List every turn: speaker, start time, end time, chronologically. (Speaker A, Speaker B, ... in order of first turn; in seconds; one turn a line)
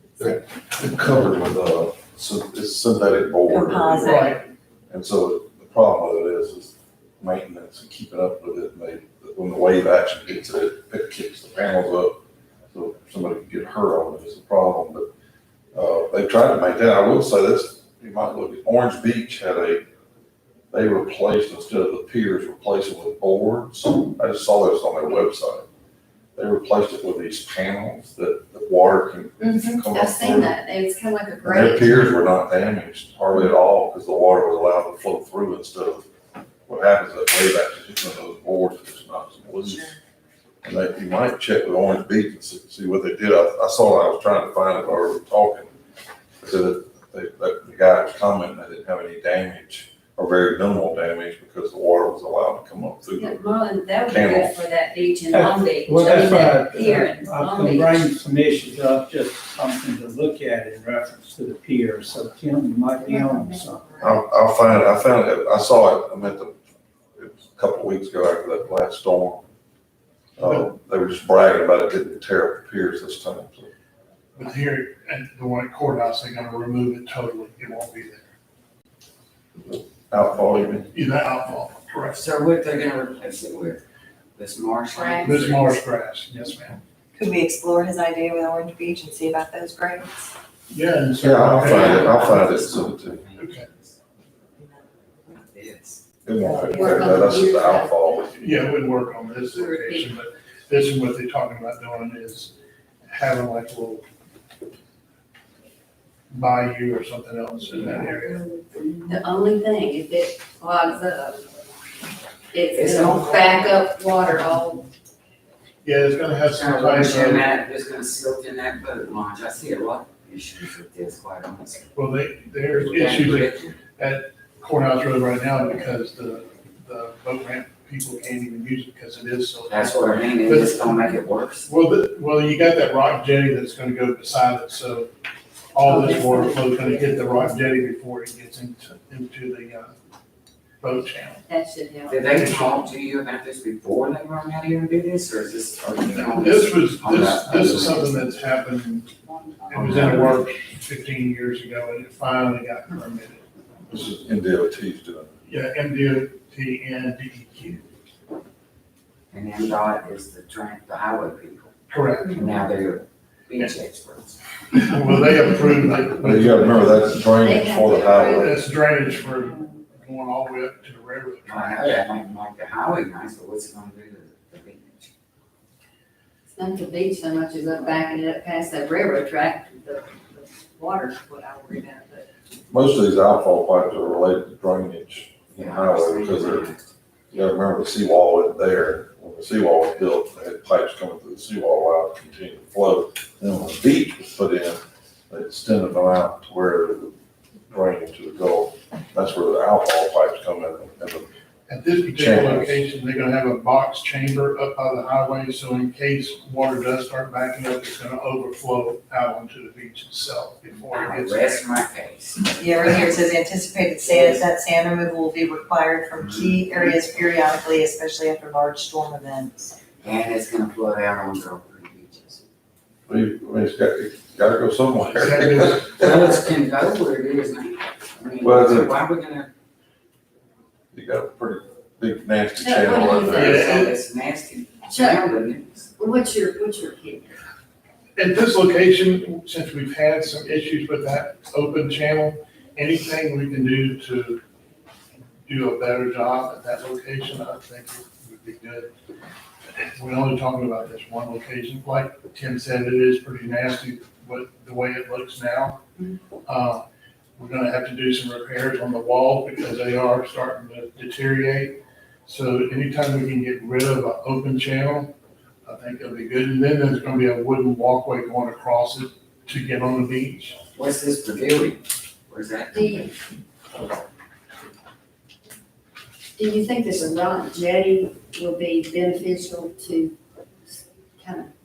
Speaker A: 0.2-4.2
Speaker B: 3.5-4.3
Speaker C: 4.0-4.4
Speaker A: 4.9-12.2
Speaker A: 12.7-15.1
Speaker A: 15.7-19.8
Speaker A: 20.7-25.6
Speaker A: 26.4-30.6
Speaker D: 29.4-32.0
Speaker A: 31.4-36.0
Speaker A: 36.7-39.9
Speaker B: 39.7-40.0
Speaker A: 40.6-45.7
Speaker A: 46.4-53.4
Speaker D: 53.2-58.0
Speaker A: 54.1-54.6
Speaker E: 55.3-64.0
Speaker D: 63.0-64.2
Speaker A: 64.0-66.6
Speaker A: 67.2-69.4
Speaker A: 70.4-73.7
Speaker C: 74.4-78.3
Speaker A: 79.6-80.9
Speaker C: 80.9-82.2
Speaker F: 82.1-83.8
Speaker F: 84.3-85.8
Speaker D: 84.9-85.3
Speaker C: 85.2-86.8
Speaker B: 87.1-90.3
Speaker C: 90.7-92.4
Speaker A: 91.2-93.2
Speaker F: 91.5-94.0
Speaker C: 93.4-93.7
Speaker F: 95.5-96.0
Speaker A: 96.2-98.3
Speaker B: 96.4-97.3
Speaker D: 96.7-97.9
Speaker C: 98.3-102.5
Speaker D: 99.5-100.1
Speaker C: 103.1-104.0
Speaker C: 106.3-108.4
Speaker D: 109.0-111.5
Speaker D: 112.5-114.9
Speaker F: 112.7-113.8
Speaker C: 115.8-117.5
Speaker F: 116.5-121.9
Speaker C: 122.0-131.1
Speaker F: 122.7-123.8
Speaker F: 129.7-131.7
Speaker C: 131.6-135.1
Speaker C: 135.7-139.9
Speaker D: 135.8-137.5
Speaker C: 140.8-141.4
Speaker D: 141.5-142.6
Speaker F: 142.1-148.3
Speaker C: 142.3-142.8
Speaker C: 146.3-149.1
Speaker F: 149.3-150.4
Speaker C: 149.7-153.4
Speaker A: 153.9-155.3
Speaker C: 155.4-157.8
Speaker F: 159.3-161.7
Speaker C: 161.9-162.4
Speaker F: 162.3-164.4
Speaker C: 164.7-167.1
Speaker A: 166.1-168.5
Speaker D: 167.4-168.6
Speaker C: 168.3-172.0
Speaker F: 171.4-175.1
Speaker D: 176.5-182.3
Speaker A: 182.7-186.7
Speaker F: 185.6-186.9
Speaker A: 187.3-197.1
Speaker A: 197.7-201.3
Speaker C: 201.7-211.7
Speaker A: 202.1-202.8
Speaker F: 210.9-212.6
Speaker B: 212.5-219.7
Speaker F: 214.0-214.4
Speaker F: 216.2-217.1
Speaker F: 220.0-222.4
Speaker A: 223.1-226.1
Speaker C: 225.0-226.2
Speaker F: 225.9-229.5
Speaker A: 228.4-229.0
Speaker A: 230.9-233.6
Speaker D: 232.6-233.8
Speaker C: 233.3-233.9
Speaker F: 233.4-235.9
Speaker D: 234.9-235.3
Speaker D: 236.0-237.4
Speaker C: 238.2-244.4
Speaker C: 245.4-248.9
Speaker C: 249.7-255.8
Speaker C: 256.4-256.8
Speaker C: 257.4-265.1
Speaker C: 265.6-270.6
Speaker F: 270.7-273.1
Speaker D: 272.7-273.1
Speaker D: 276.4-280.1
Speaker D: 280.7-281.5